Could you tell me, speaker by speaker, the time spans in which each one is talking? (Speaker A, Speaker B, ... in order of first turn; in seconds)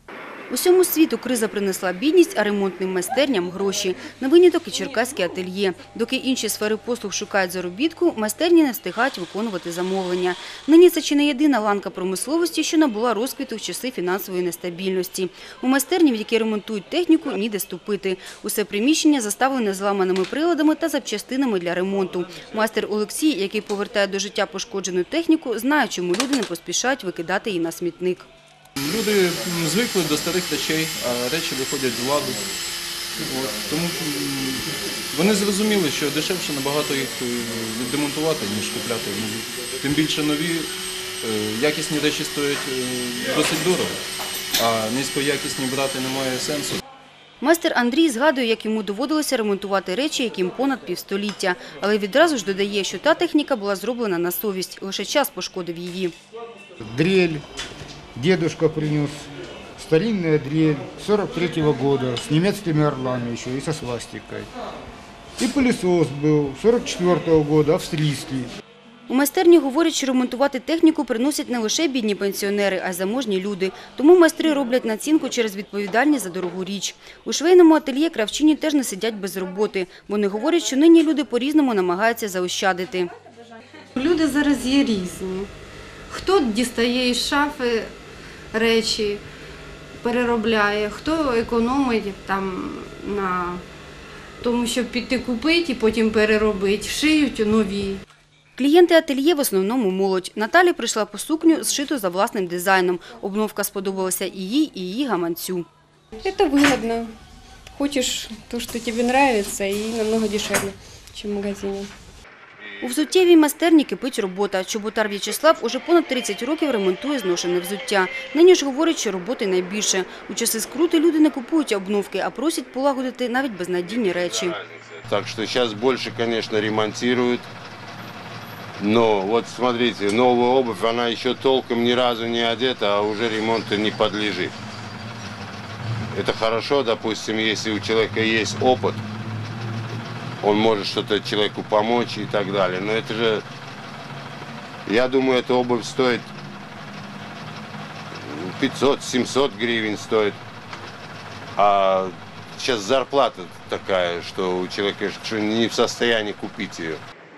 Speaker A: 0.5-28.2, 47.4-56.1, 69.1-83.1, 98.6-105.7, 112.8-124.6
Speaker B: 28.8-32.5, 33.1-40.7, 41.2-44.0, 44.6-46.8
Speaker C: 56.9-57.4, 58.2-64.5, 65.4-68.5
Speaker D: 84.0-85.5, 86.1-87.9, 88.5-89.2, 90.0-93.6, 94.4-98.0
Speaker E: 106.2-107.1, 107.7-111.9
Speaker F: 124.7-127.5, 128.8-134.6, 136.1-139.0, 140.4-143.4, 144.9-146.3, 148.2-150.4, 151.6-157.0